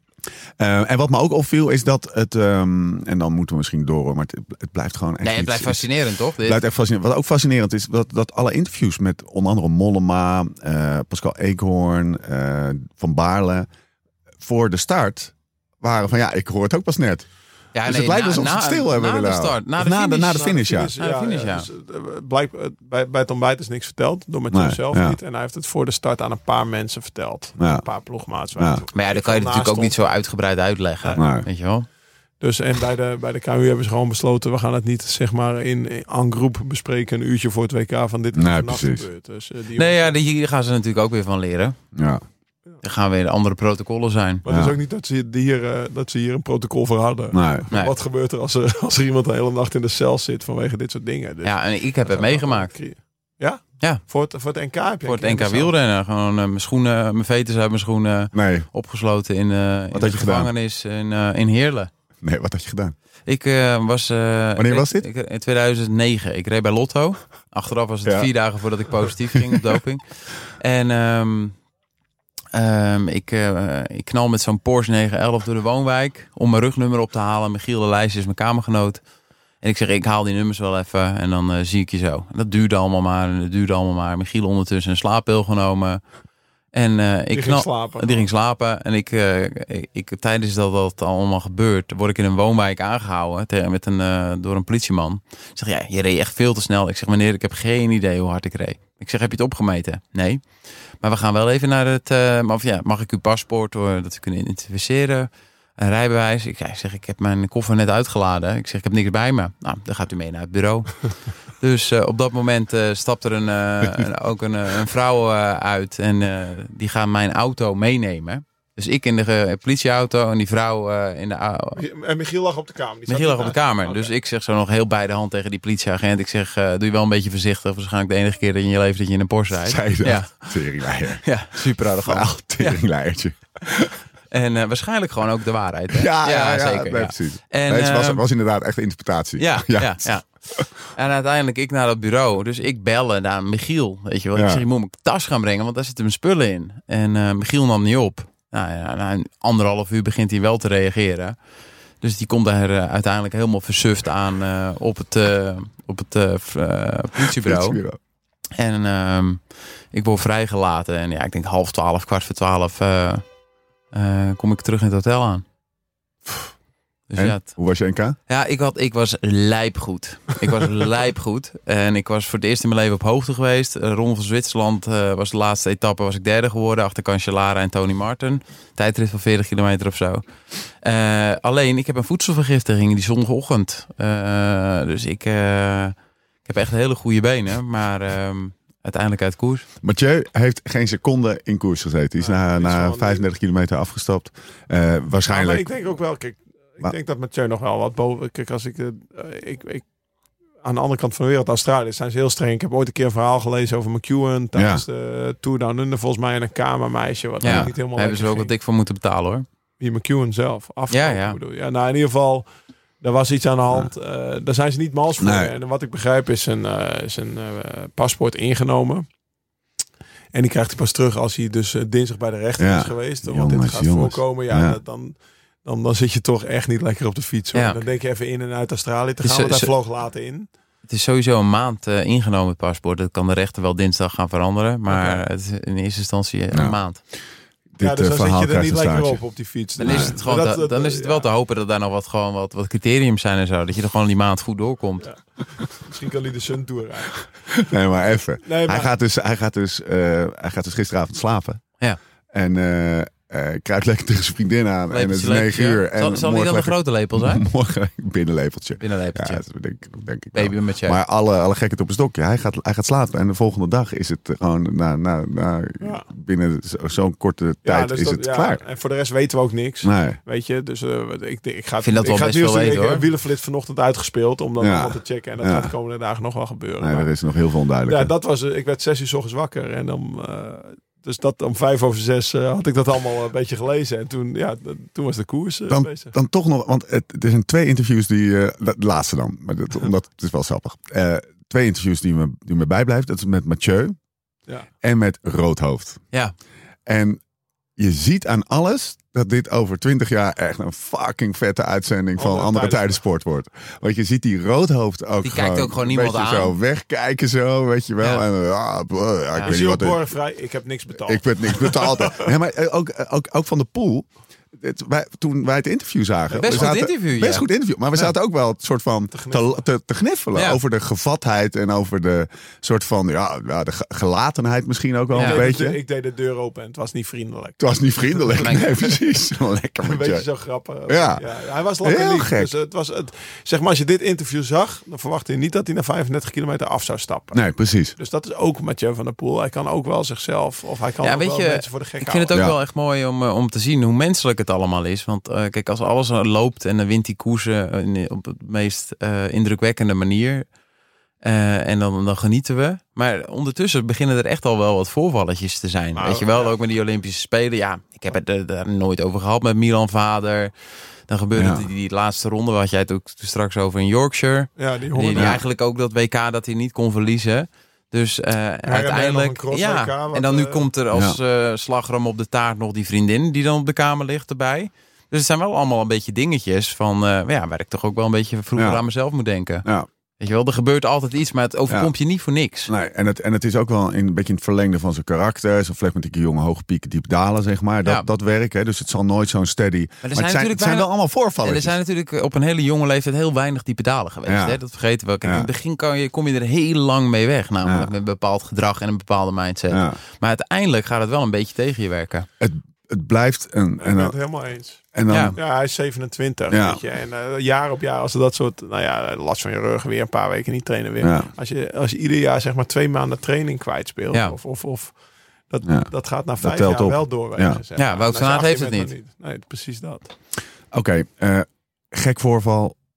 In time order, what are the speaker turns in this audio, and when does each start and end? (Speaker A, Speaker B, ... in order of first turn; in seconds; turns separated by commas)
Speaker A: 0.6-5.8, Speaker B: 5.2-6.6, Speaker A: 6.4-13.7, Speaker A: 14.4-17.2, Speaker B: 17.7-21.7, Speaker A: 17.8-20.9, Speaker C: 20.3-30.0, Speaker A: 24.5-25.2, Speaker A: 27.6-27.8, Speaker A: 28.6-28.8, Speaker B: 28.9-31.9, Speaker A: 31.2-31.4, Speaker C: 32.4-40.1, Speaker A: 38.3-39.0, Speaker B: 39.7-41.8, Speaker A: 41.9-42.2, Speaker B: 42.8-44.4, Speaker C: 44.4-55.7, Speaker A: 44.5-44.8, Speaker A: 47.3-47.7, Speaker B: 51.4-52.7, Speaker B: 55.0-61.9, Speaker A: 58.3-58.7, Speaker A: 59.9-60.5, Speaker A: 62.2-62.9, Speaker B: 63.3-70.0, Speaker A: 64.6-65.0, Speaker B: 70.6-71.5, Speaker B: 72.5-79.0, Speaker B: 79.6-86.0, Speaker B: 86.7-100.4, Speaker C: 87.3-88.3, Speaker B: 101.0-121.8, Speaker C: 121.8-124.1, Speaker B: 123.1-130.5, Speaker A: 129.6-131.2, Speaker B: 131.2-132.8, Speaker A: 132.0-134.0, Speaker B: 134.3-138.2, Speaker A: 135.9-140.6, Speaker B: 139.4-140.3, Speaker B: 140.9-151.3, Speaker A: 144.3-144.6, Speaker B: 152.0-157.8, Speaker A: 157.2-158.0, Speaker B: 158.6-159.4, Speaker B: 159.9-163.2, Speaker B: 163.9-165.4, Speaker B: 167.1-167.5, Speaker A: 167.2-168.2, Speaker B: 168.3-180.2, Speaker B: 180.8-189.7, Speaker A: 189.8-195.6, Speaker C: 192.2-193.2, Speaker C: 195.3-199.8, Speaker C: 200.6-208.5, Speaker A: 204.5-204.8, Speaker B: 207.4-209.4, Speaker A: 207.4-207.7, Speaker C: 209.8-212.5, Speaker B: 210.9-211.4, Speaker C: 213.0-219.1, Speaker A: 215.2-215.5, Speaker C: 220.3-230.5, Speaker A: 222.6-224.8, Speaker B: 227.5-227.8, Speaker B: 229.2-229.7, Speaker B: 230.9-237.0, Speaker C: 234.9-235.2, Speaker A: 237.8-239.2, Speaker C: 237.8-241.3, Speaker B: 239.8-245.1, Speaker A: 239.8-240.1, Speaker C: 245.0-247.2, Speaker A: 247.5-251.6, Speaker C: 248.4-248.9, Speaker A: 252.3-268.6, Speaker B: 254.9-257.4, Speaker B: 258.8-259.4, Speaker B: 260.3-261.0, Speaker C: 267.6-277.1, Speaker A: 269.8-270.2, Speaker B: 271.8-273.0, Speaker A: 274.6-275.7, Speaker A: 276.8-278.1, Speaker C: 277.9-286.1, Speaker A: 285.7-293.9, Speaker A: 294.8-296.0, Speaker A: 296.9-297.2, Speaker A: 297.8-310.0, Speaker C: 302.2-303.0, Speaker B: 305.2-306.5, Speaker C: 309.4-312.3, Speaker A: 311.0-325.8, Speaker C: 316.3-316.7, Speaker B: 316.4-317.4, Speaker C: 319.1-319.5, Speaker C: 325.1-328.9, Speaker B: 325.1-325.4, Speaker A: 327.6-330.2, Speaker B: 328.4-328.6, Speaker C: 329.8-337.4, Speaker A: 330.9-331.2, Speaker A: 331.8-332.5, Speaker A: 337.3-338.0, Speaker C: 338.0-342.3, Speaker B: 341.0-350.4, Speaker A: 342.3-342.6, Speaker B: 351.2-360.5, Speaker C: 355.9-356.5, Speaker B: 361.1-379.6, Speaker A: 361.3-361.7, Speaker C: 364.6-365.4, Speaker A: 365.1-365.4, Speaker C: 368.6-370.6, Speaker A: 378.6-378.8, Speaker B: 380.2-382.7, Speaker A: 382.7-391.8, Speaker B: 390.0-390.9, Speaker B: 391.4-402.3, Speaker A: 394.2-394.6, Speaker A: 395.2-395.5, Speaker A: 397.6-397.9, Speaker A: 399.7-400.0, Speaker A: 402.4-404.1, Speaker C: 403.8-404.8, Speaker A: 404.9-405.4, Speaker B: 405.1-405.4, Speaker C: 405.3-414.9, Speaker A: 406.5-406.8, Speaker A: 411.0-411.3, Speaker C: 415.5-420.1, Speaker A: 415.6-417.6, Speaker B: 417.8-418.9, Speaker A: 420.7-422.8